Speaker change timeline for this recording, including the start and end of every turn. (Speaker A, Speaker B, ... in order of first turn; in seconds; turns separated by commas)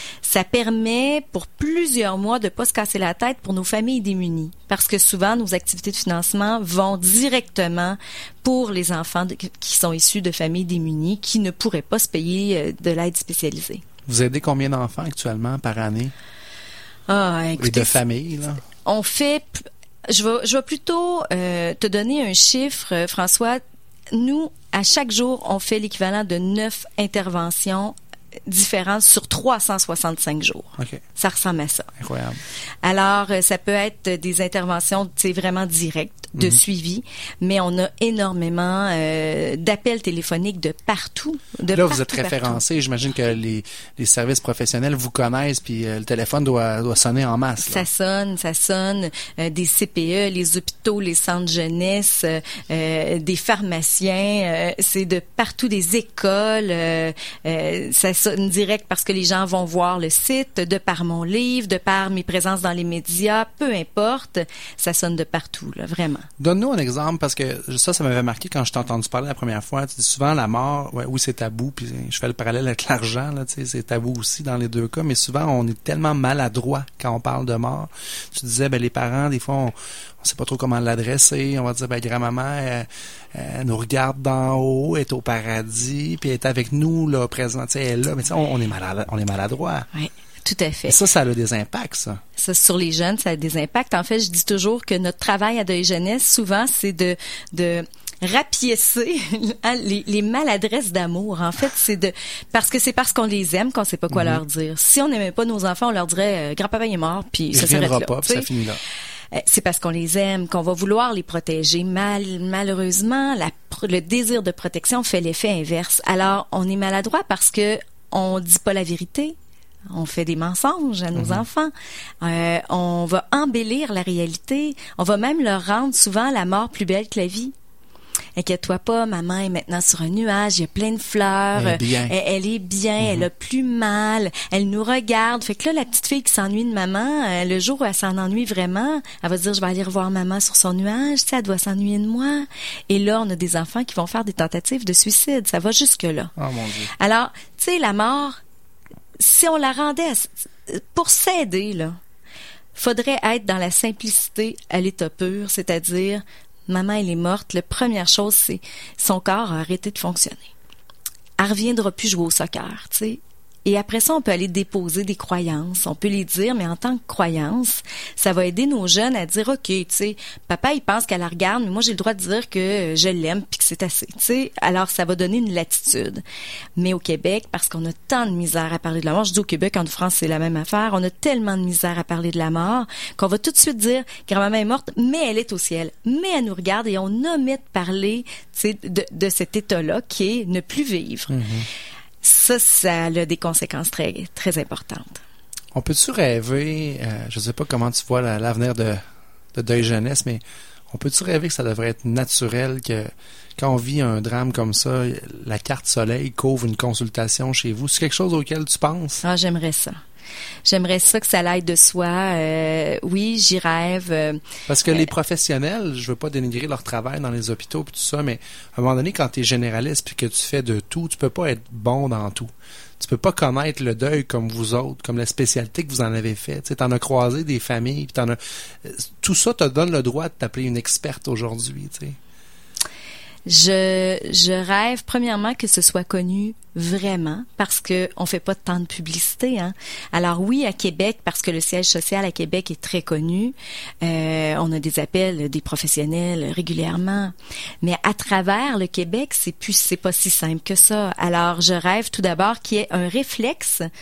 Speaker A: 0.2-13.8, Speaker B: 14.1-16.1, Speaker A: 17.1-18.0, Speaker B: 17.6-18.6, Speaker A: 18.7-23.6, Speaker A: 24.1-27.9, Speaker A: 28.5-31.9, Speaker B: 30.8-31.0, Speaker B: 32.0-32.4, Speaker A: 32.8-42.6, Speaker B: 36.4-36.6, Speaker B: 41.7-47.9, Speaker A: 47.6-66.3, Speaker B: 66.4-89.9, Speaker A: 89.9-91.0, Speaker B: 90.9-92.2, Speaker A: 92.4-108.5, Speaker B: 104.1-104.4, Speaker B: 107.5-108.8, Speaker A: 109.3-119.3, Speaker A: 119.9-127.5, Speaker B: 121.1-121.5, Speaker A: 128.3-146.3, Speaker B: 131.5-132.1, Speaker B: 133.0-133.3, Speaker B: 146.4-146.9, Speaker A: 146.9-148.4, Speaker A: 149.2-152.0, Speaker A: 152.7-160.5, Speaker A: 161.4-176.2, Speaker A: 176.8-191.4, Speaker B: 191.3-191.7, Speaker A: 192.2-195.2, Speaker B: 195.7-199.0, Speaker B: 199.5-209.2, Speaker A: 209.2-210.0, Speaker A: 210.7-215.1, Speaker B: 214.7-232.2, Speaker A: 233.4-253.9